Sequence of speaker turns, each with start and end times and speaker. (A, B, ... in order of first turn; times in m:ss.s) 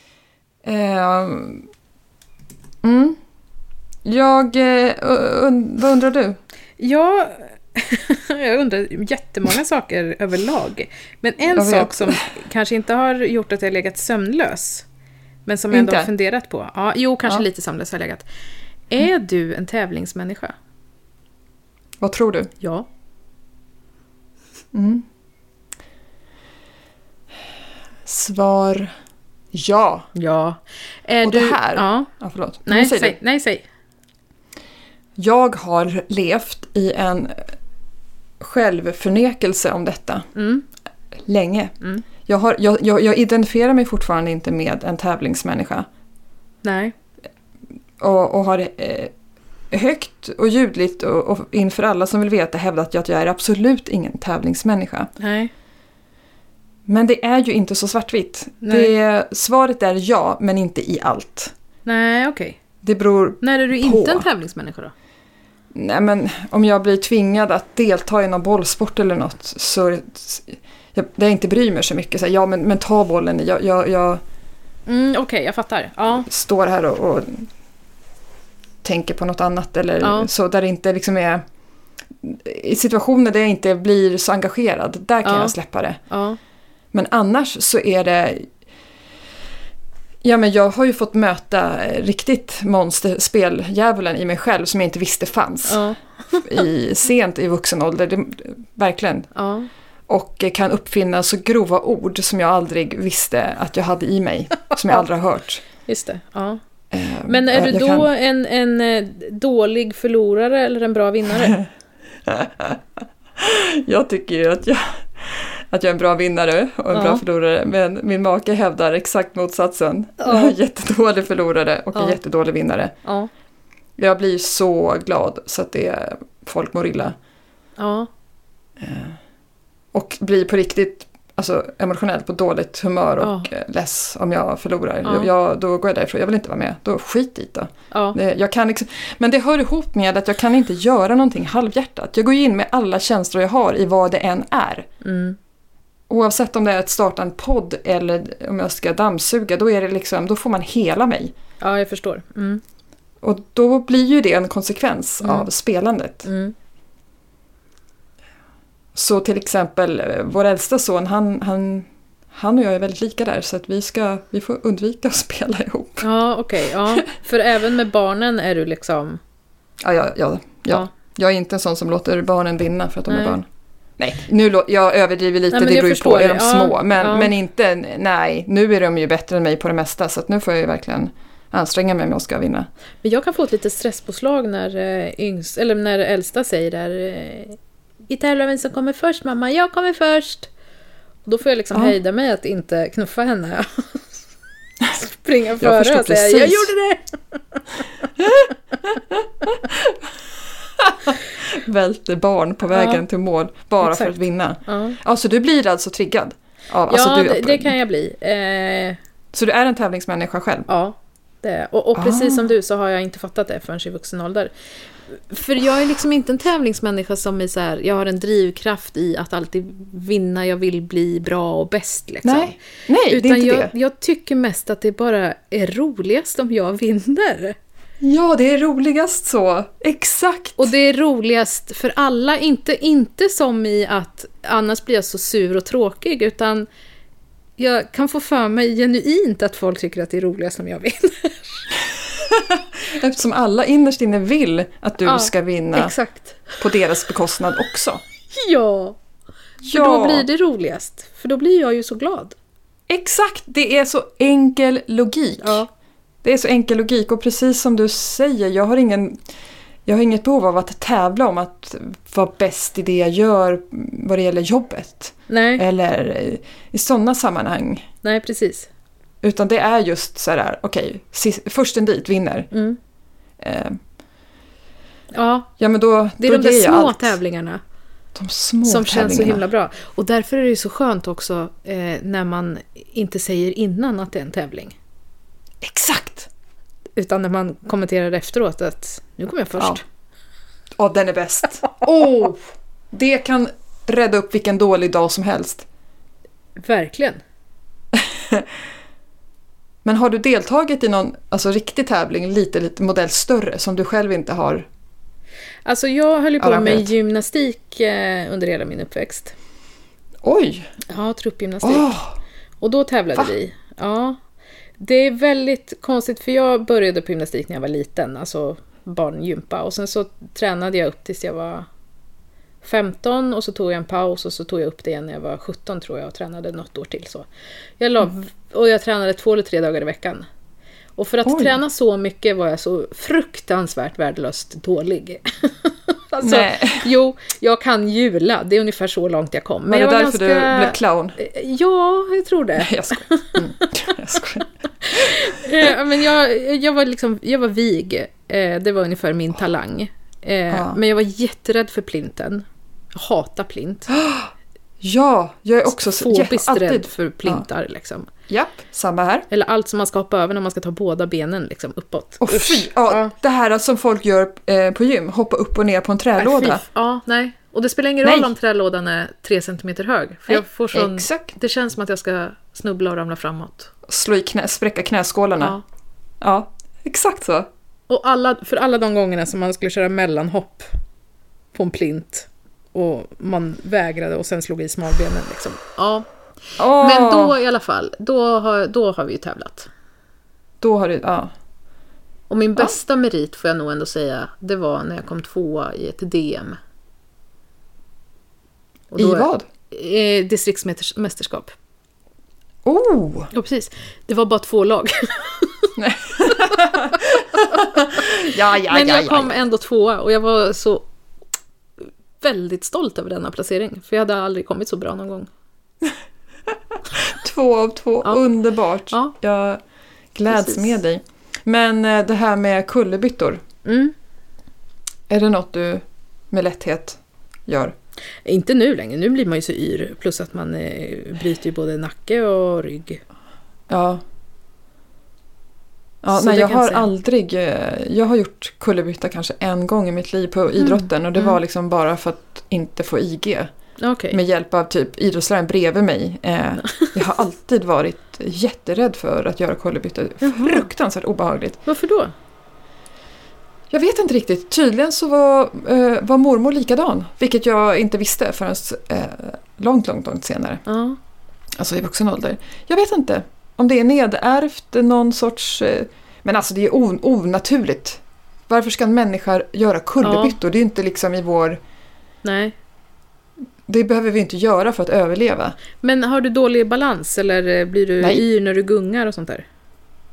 0:00.6-0:01.7 A
0:02.8-0:03.2 A
0:04.0-0:06.4 A
0:06.8-0:14.9 B
0:11.5-0:12.3 A
0:15.5-0:18.3 B
0:15.7-0:16.1 A
0:18.9-0:20.5 B
0:22.0-0:22.5 A
0:22.6-0:22.9 B
0:24.7-0:25.0 A
0:28.0-0:28.9 A
0:29.5-0:30.1 A
0:30.2-0:32.1 B
0:31.2-0:33.2 A
0:32.7-0:33.7 B
0:35.2-0:37.5 A
0:38.4-0:40.3 A
0:40.4-0:40.7 B
0:41.3-0:45.9 A
0:46.6-0:46.9 B
0:48.0-0:49.1 A
0:49.7-0:55.1 A
0:55.2-0:55.5 B
0:56.9-1:01.5 A
0:58.6-0:58.9 B
1:01.8-1:02.6 B
1:02.8-1:04.3 A
1:03.4-1:04.9 B
1:05.7-1:14.2 A
1:14.9-1:16.3 B
1:16.3-1:17.5 A
1:18.8-1:21.4 A
1:20.0-1:20.3 B
1:22.2-1:26.0 A
1:25.2-1:25.6 B
1:26.1-1:26.4 B
1:26.9-1:28.5 A
1:30.2-1:35.8 A
1:35.7-1:36.4 B
1:36.4-1:39.3 A
1:39.4-1:39.7 B
1:40.1-1:45.6 A
1:45.9-1:46.6 B
1:46.9-1:48.1 A
1:47.3-1:51.6 B
1:52.3-1:52.8 A
1:53.4-2:03.0 A
1:56.9-1:57.2 B
2:00.2-2:00.6 B
2:01.9-2:02.2 B
2:03.0-2:03.3 B
2:04.0-2:07.2 A
2:07.8-2:08.1 B
2:08.8-2:09.2 A
2:09.9-2:24.9 A
2:13.2-2:13.5 B
2:15.0-2:15.3 B
2:17.9-2:18.2 B
2:25.0-2:25.4 B
2:26.1-2:31.3 A
2:31.6-2:32.6 B
2:33.2-2:36.3 A
2:35.2-2:35.5 B
2:36.2-2:36.6 B
2:39.0-2:46.1 A
2:46.0-2:49.2 B
2:49.8-2:53.5 A
2:53.1-2:53.4 B
2:54.0-3:02.7 A
2:55.5-2:57.3 B
3:03.0-3:10.5 B
3:11.2-3:14.1 B
3:15.0-3:18.5 B
3:15.6-3:16.7 A
3:18.2-3:20.0 A
3:20.8-3:27.8 A
3:22.7-3:23.0 B
3:23.8-3:24.1 B
3:24.7-3:25.0 B
3:26.9-3:29.0 B
3:29.3-3:30.7 A
3:30.7-3:34.5 B
3:32.0-3:32.5 A
3:35.1-3:47.6 B
3:42.2-3:43.7 A
3:48.0-3:50.7 A
3:50.6-3:56.7 B
3:57.6-4:01.7 B
4:02.1-4:05.9 A
4:05.0-4:06.6 B
4:06.6-4:08.0 A
4:08.3-4:09.0 B
4:09.6-4:10.3 A
4:09.7-4:12.4 B
4:12.9-4:15.6 A
4:15.4-4:15.7 B
4:16.2-4:19.2 A
4:19.9-4:27.9 A
4:25.3-4:25.6 B
4:28.0-4:28.7 B
4:29.2-4:32.5 A
4:32.5-4:32.8 B
4:33.4-4:33.8 A
4:35.1-4:35.5 B
4:35.6-4:37.2 A
4:36.2-4:37.6 B
4:38.2-4:39.5 A
4:38.6-4:44.8 B
4:45.6-4:46.3 A
4:47.0-4:49.8 B
4:50.8-4:55.7 A
4:56.6-4:57.2 B
4:58.0-4:58.5 A
4:59.8-5:04.7 A
5:05.6-5:09.4 B
5:06.4-5:06.9 A
5:10.2-5:10.7 A
5:10.9-5:12.0 B
5:11.6-5:12.2 A
5:12.6-5:14.2 B
5:14.8-5:21.7 B
5:22.6-5:27.3 B
5:27.8-5:30.3 B
5:31.0-5:44.2 B
5:31.2-5:31.6 A
5:36.2-5:36.9 A
5:39.7-5:41.2 A
5:42.6-5:45.4 A
5:44.8-5:53.9 B
5:50.5-5:50.8 A
5:53.9-5:57.4 A
5:55.7-5:58.1 B
5:58.3-5:59.3 A
5:59.3-6:03.1 B
6:02.2-6:06.6 A
6:06.2-6:13.7 B
6:08.0-6:08.3 A
6:10.3-6:11.3 A
6:13.9-6:15.6 A
6:16.2-6:17.5 A
6:17.9-6:20.7 B
6:21.5-6:26.1 B
6:26.6-6:27.4 A
6:26.8-6:29.7 B
6:30.6-6:31.3 A
6:32.3-6:36.6 B
6:38.9-6:41.6 B
6:39.0-6:39.5 A
6:42.6-6:43.3 A
6:43.3-6:45.7 B
6:45.8-6:49.4 A
6:46.3-6:48.0 B
6:48.7-6:50.9 B
6:51.8-6:55.3 B
6:56.7-6:59.6 A
7:00.1-7:03.4 A
7:00.3-7:00.7 B
7:03.6-7:03.9 B
7:05.1-7:07.7 A
7:08.2-7:13.0 B
7:13.7-7:14.0 A
7:16.0-7:23.5 A
7:16.1-7:16.9 B
7:20.6-7:21.4 B
7:23.8-7:24.2 B
7:24.1-7:31.6 A
7:30.2-7:30.7 B
7:31.7-7:32.1 B
7:33.7-7:40.6 A
7:40.7-7:41.0 B
7:41.6-7:51.6 A
7:50.0-7:50.4 B
7:52.2-7:52.6 B
7:53.7-7:55.6 A
7:55.8-7:59.4 B